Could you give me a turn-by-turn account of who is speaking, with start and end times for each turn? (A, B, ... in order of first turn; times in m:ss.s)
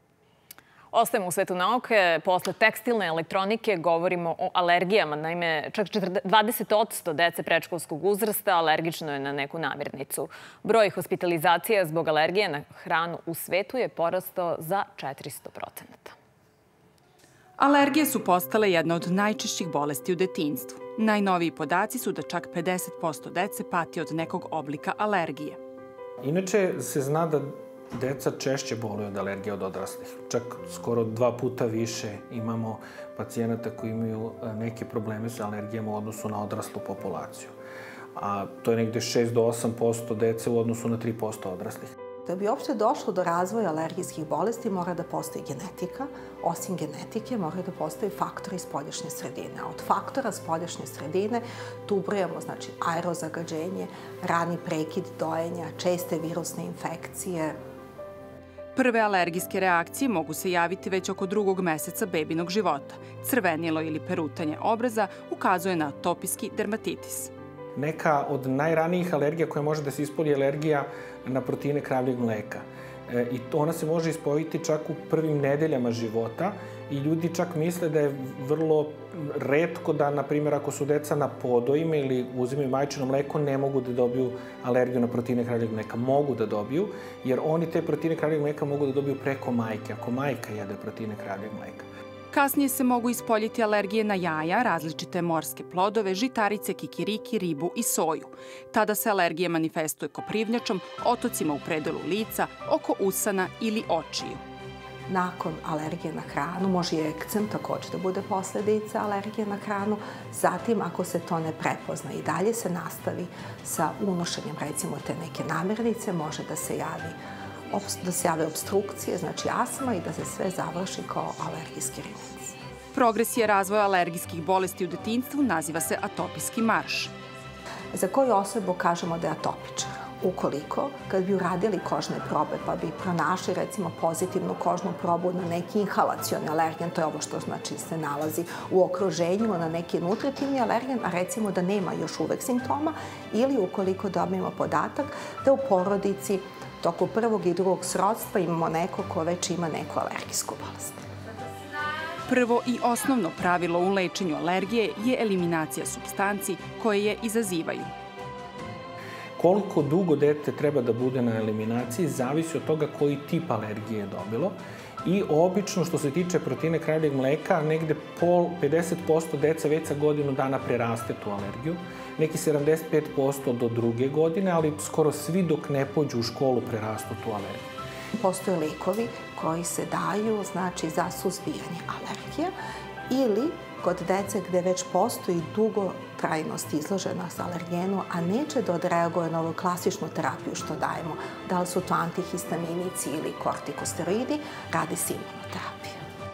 0:00.9-0:16.1 A
0:17.6-0:25.6 B
0:26.2-0:37.5 C
0:38.2-0:41.9 C
0:42.2-0:57.5 D
0:58.8-1:07.3 B
1:07.8-1:31.9 C
1:32.3-1:44.4 B
1:45.1-1:57.2 D
1:57.7-2:02.6 D
2:03.0-2:07.1 B
2:07.9-2:31.0 D
2:32.3-2:37.9 B
2:39.4-2:57.6 C
2:58.1-3:02.5 D
3:03.1-3:16.0 D